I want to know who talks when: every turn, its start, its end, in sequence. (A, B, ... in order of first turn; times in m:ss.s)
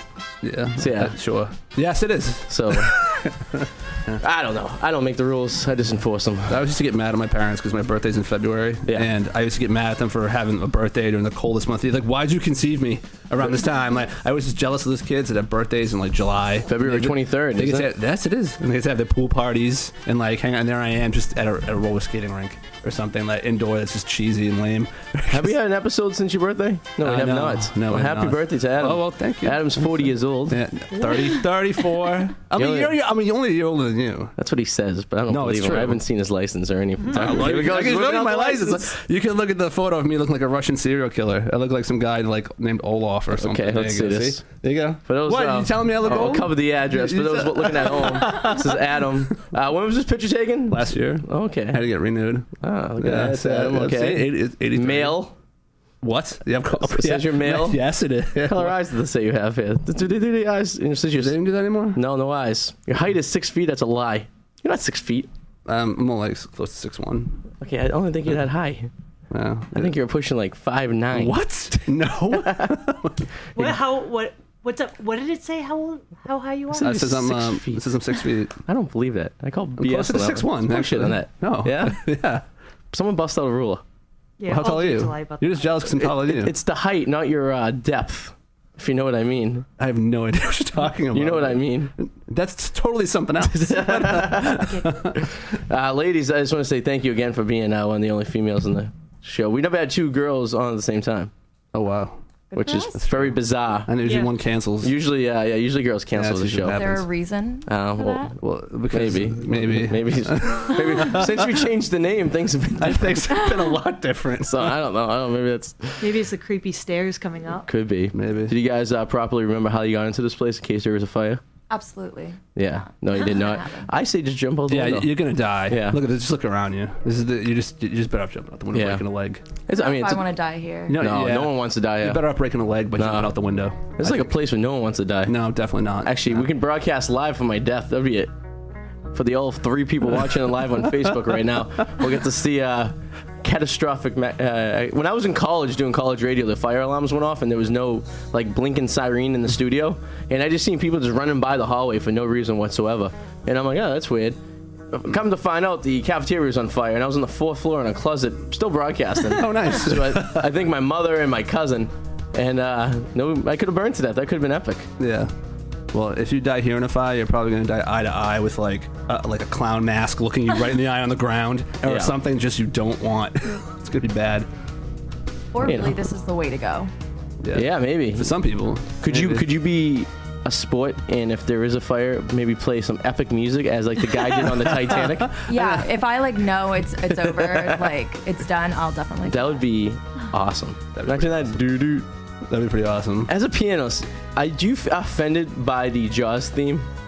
0:00.4-0:04.2 A
0:00.8-0:01.2 B
0:02.5-0:03.0 B
0:04.2-0:06.7 B
0:06.5-0:25.5 A
0:16.7-0:17.9 B
0:25.3-0:30.6 B
0:27.0-0:34.3 A
0:32.5-0:33.0 B
0:34.4-0:39.0 B
0:35.3-0:36.0 A
0:37.0-0:37.4 C
0:37.1-0:48.8 A
0:43.3-0:44.4 B
0:45.0-0:51.8 B
0:50.7-0:52.5 A
0:52.6-0:55.3 B
0:53.0-0:55.2 A
0:56.0-0:58.7 A
0:56.7-0:57.8 B
0:58.4-1:01.4 B
1:01.2-1:02.0 A
1:01.9-1:05.3 B
1:05.6-1:07.4 A
1:07.6-1:08.9 B
1:09.3-1:09.9 A
1:09.7-1:11.4 B
1:11.1-1:13.7 A
1:12.3-1:12.8 B
1:13.6-1:17.0 C
1:16.7-1:18.1 B
1:16.8-1:18.6 A
1:18.6-1:22.0 B
1:19.8-1:22.4 A
1:22.9-1:23.8 B
1:24.4-1:26.0 C
1:24.5-1:26.5 A
1:26.0-1:29.7 B
1:29.8-1:35.2 A
1:31.1-1:31.9 B
1:33.4-1:41.3 B
1:34.5-1:34.9 C
1:41.7-1:42.2 A
1:42.5-1:43.0 D
1:42.5-1:43.9 B
1:43.0-1:44.9 A
1:44.0-1:44.3 C
1:44.8-1:46.9 B
1:46.1-1:47.1 A
1:46.7-1:48.3 D
1:47.7-1:48.3 B
1:48.4-1:51.6 A
1:48.9-1:53.5 B
1:52.8-1:54.8 A
1:54.4-1:56.2 B
1:56.0-1:57.6 C
1:57.6-2:01.4 B
1:58.1-1:58.5 A
2:01.7-2:03.9 D
2:02.5-2:05.1 B
2:04.7-2:09.4 A
2:05.7-2:06.0 B
2:08.7-2:09.0 B
2:09.6-2:10.3 B
2:09.7-2:11.0 D
2:10.9-2:14.3 A
2:10.9-2:12.2 B
2:13.0-2:13.3 B
2:14.0-2:15.4 B
2:15.2-2:16.5 A
2:16.0-2:18.3 B
2:19.1-2:34.4 B
2:34.9-2:44.9 B
2:39.3-2:40.5 A
2:45.0-2:45.3 A
2:45.9-2:54.5 A
2:51.8-2:52.2 B
2:55.5-2:56.9 D
2:55.6-2:56.0 B
2:57.4-2:59.4 A
2:57.5-2:58.4 B
2:59.0-3:05.4 B
3:04.4-3:05.8 A
3:05.4-3:09.6 D
3:07.1-3:08.0 B
3:09.3-3:12.1 B
3:11.0-3:11.6 A
3:12.5-3:13.3 A
3:13.3-3:16.9 B